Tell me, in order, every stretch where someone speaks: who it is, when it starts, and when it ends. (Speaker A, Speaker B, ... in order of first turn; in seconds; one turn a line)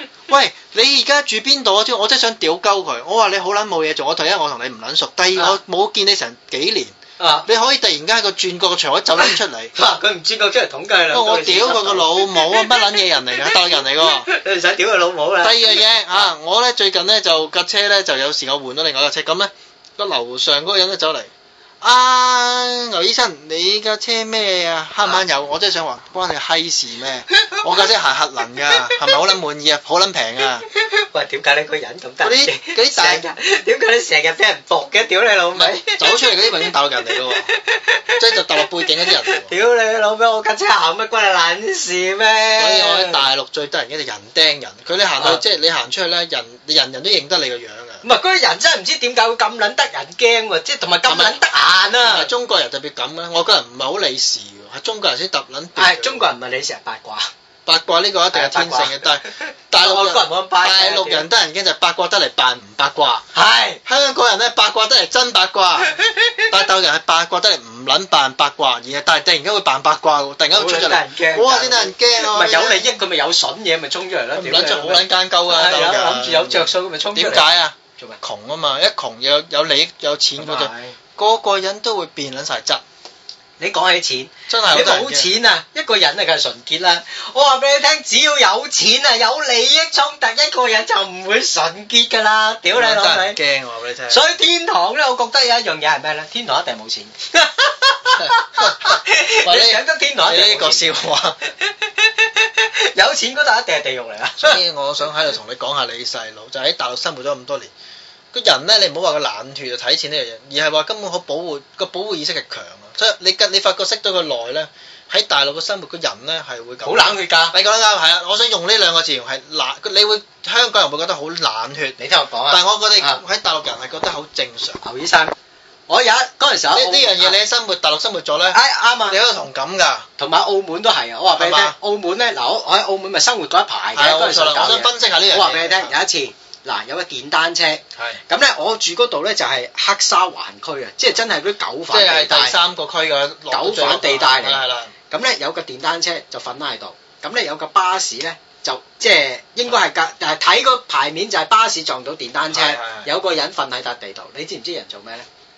Speaker A: 0.3-9.7
Speaker B: 7.2-7.5
Speaker B: 9.2-16.3
Speaker A: 11.1-14.3
Speaker A: 15.4-30.6
Speaker B: 27.4-27.9
Speaker B: 28.5-29.3
Speaker B: 30.6-36.1
Speaker A: 32.2-33.2
Speaker A: 35.5-37.5
Speaker B: 37.5-43.2
Speaker A: 38.2-39.5
Speaker A: 42.6-48.0
Speaker B: 48.0-52.3
Speaker A: 51.1-51.4
Speaker A: 52.0-56.3
Speaker B: 55.8-57.3
Speaker A: 57.7-63.2
Speaker B: 58.3-61.3
Speaker B: 63.3-63.8
Speaker A: 63.9-72.8
Speaker B: 65.9-66.5
Speaker B: 70.5-78.2
Speaker A: 74.3-82.8
Speaker B: 80.4-81.0
Speaker B: 83.6-93.4
Speaker A: 84.5-85.3
Speaker A: 92.7-94.2
Speaker B: 94.1-100.9
Speaker A: 98.2-101.4
Speaker B: 101.6-104.6
Speaker A: 104.4-107.7
Speaker A: 108.3-122.0
Speaker B: 116.8-117.5
Speaker B: 122.0-123.2
Speaker A: 122.5-124.8
Speaker B: 124.8-125.3
Speaker B: 125.9-127.4
Speaker A: 126.7-130.1
Speaker B: 128.5-129.2
Speaker B: 130.2-142.6
Speaker A: 131.4-131.8
Speaker A: 133.9-135.9
Speaker A: 141.9-144.9
Speaker B: 143.5-155.3
Speaker A: 152.5-153.1